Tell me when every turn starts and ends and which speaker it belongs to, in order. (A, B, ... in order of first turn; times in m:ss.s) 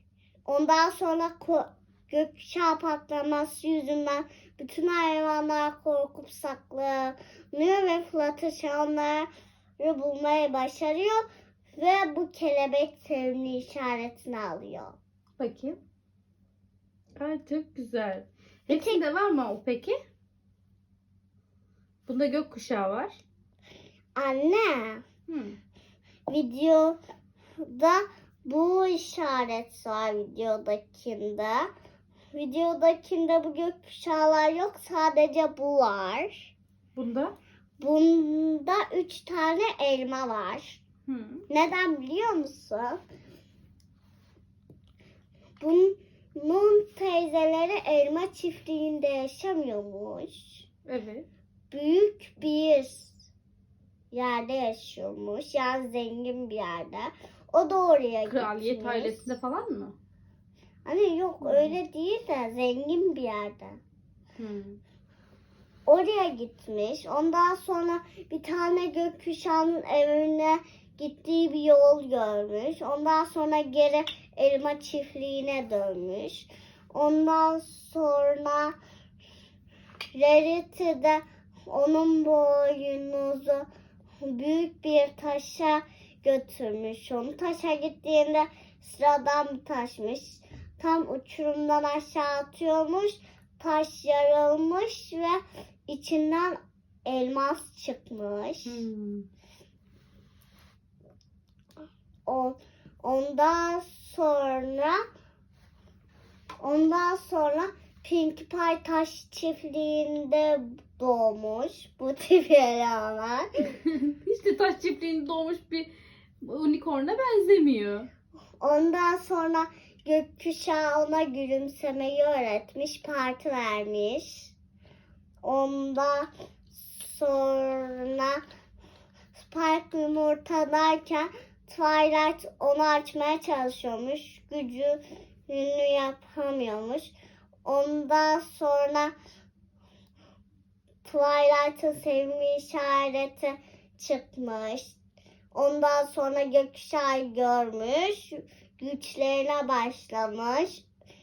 0:00.5-0:09.3 A
0:09.8-0:15.0 A
0:15.4-0:15.8 B
0:17.2-0:20.0 B
0:18.7-0:19.0 A
0:22.0-0:23.2 B
0:24.2-0:25.0 A
0:25.3-0:25.6 B
0:26.3-0:27.0 A
0:27.6-0:31.7 A
0:32.3-0:36.5 A
0:37.0-0:37.4 B
0:37.8-0:40.8 A
0:41.1-0:41.4 B
0:41.5-0:43.0 A
0:45.6-0:50.7 A
0:50.8-0:51.2 B
0:51.7-0:53.2 A
0:54.1-0:59.3 A
0:58.2-0:59.9 B
1:00.8-1:03.8 A
1:01.4-1:01.8 B
1:04.4-1:04.8 B
1:05.9-1:18.7 A
1:20.1-1:23.7 A
1:24.2-1:38.8 A
1:38.6-1:39.3 B
1:42.2-1:45.0 A
1:46.6-1:53.7 A
1:53.8-1:55.9 B
1:56.4-1:58.1 B
1:58.6-2:04.5 A
2:05.4-2:08.4 A
2:09.3-2:17.1 A
2:17.6-2:19.1 A
2:21.0-2:25.0 A
2:25.5-2:30.8 A